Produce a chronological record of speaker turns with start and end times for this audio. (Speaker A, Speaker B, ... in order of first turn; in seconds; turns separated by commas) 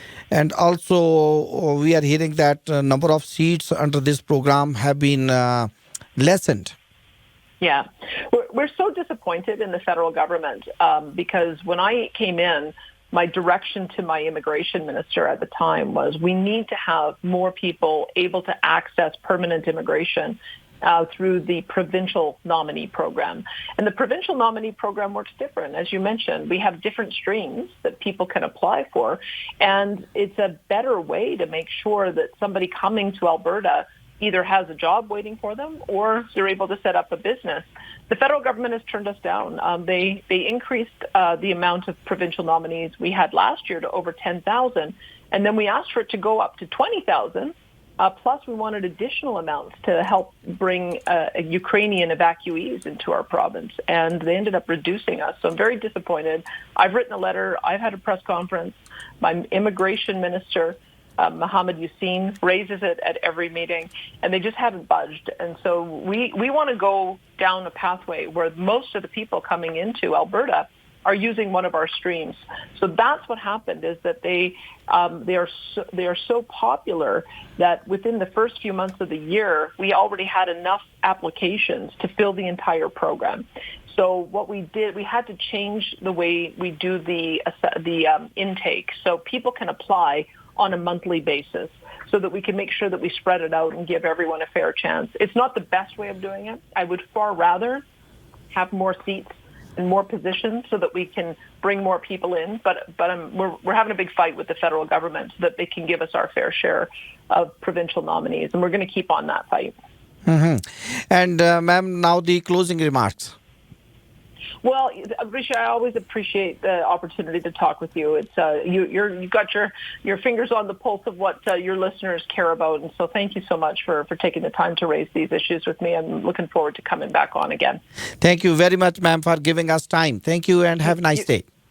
Speaker A: 0.3-6.8, Speaker B: 7.6-97.8, Speaker B: 98.5-109.7, Speaker A: 110.2-113.3, Speaker B: 114.6-127.8, Speaker A: 128.2-131.4, Speaker B: 130.8-131.2